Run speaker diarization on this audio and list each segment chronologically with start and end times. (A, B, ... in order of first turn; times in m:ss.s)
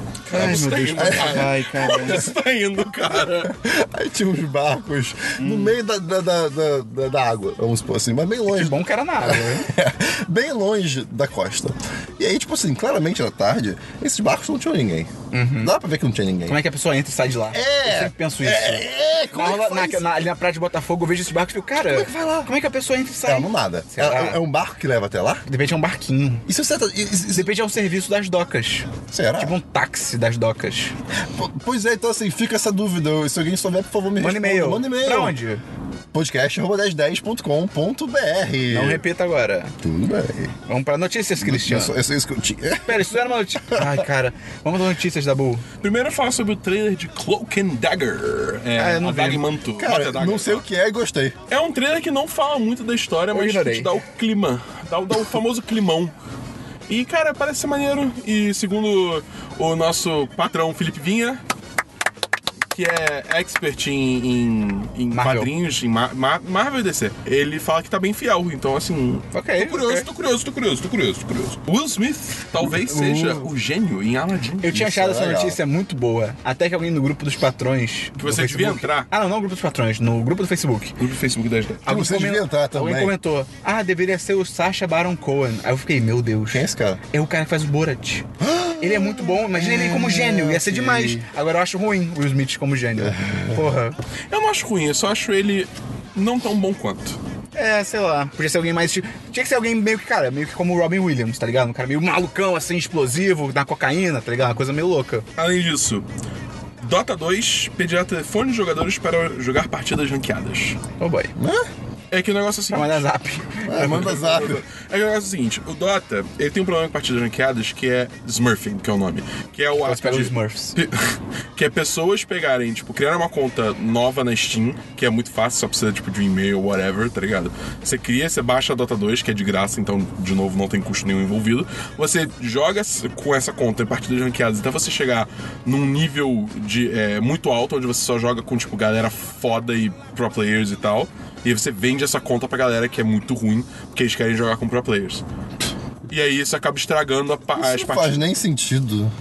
0:00.3-0:03.5 A
0:00.3-0:02.3 B
0:00.3-0:02.2 C
0:03.4-0:16.6 C
0:05.4-0:05.7 A
0:08.5-0:09.7 B
0:15.3-0:15.8 B
0:16.5-0:24.4 B
0:17.5-0:20.1 C
0:21.8-0:22.5 C
0:23.2-0:25.4 C
0:25.5-0:26.5 B
0:26.5-0:27.5 C
0:27.3-0:30.9 B
0:29.1-0:29.6 C
0:31.3-0:35.4 C
0:34.2-0:35.6 B
0:36.1-0:39.0 C
0:38.7-0:39.7 B
0:39.8-0:40.6 C
0:40.7-0:41.9 B
0:41.4-0:43.1 C
0:42.9-0:45.6 B
0:43.7-0:44.0 C
0:45.8-0:50.6 A
0:48.8-0:49.4 B
0:49.8-0:51.4 C
0:51.5-0:56.1 A
0:53.3-0:54.0 B
0:56.9-1:01.4 A
1:02.7-1:14.8 A
1:05.1-1:05.5 B
1:09.3-1:10.1 B
1:12.9-1:13.4 C
1:12.9-1:13.3 B
1:14.6-1:21.0 B
1:14.7-1:15.6 C
1:18.2-1:19.1 A
1:21.0-1:21.8 A
1:21.8-1:28.3 B
1:21.9-1:23.1 C
1:26.5-1:27.0 C
1:28.4-1:31.3 C
1:28.8-1:34.0 B
1:33.0-1:33.7 C
1:34.3-1:37.2 A
1:37.6-1:45.3 B
1:45.4-1:46.0 A
1:46.8-1:50.8 A
1:51.0-1:51.3 B
1:51.4-1:51.7 C
1:52.1-1:53.0 A
1:52.7-1:54.2 B
1:53.6-1:54.6 C
1:53.8-2:25.2 A
1:59.8-2:00.8 B
2:26.1-2:28.2 A
2:27.6-2:29.1 C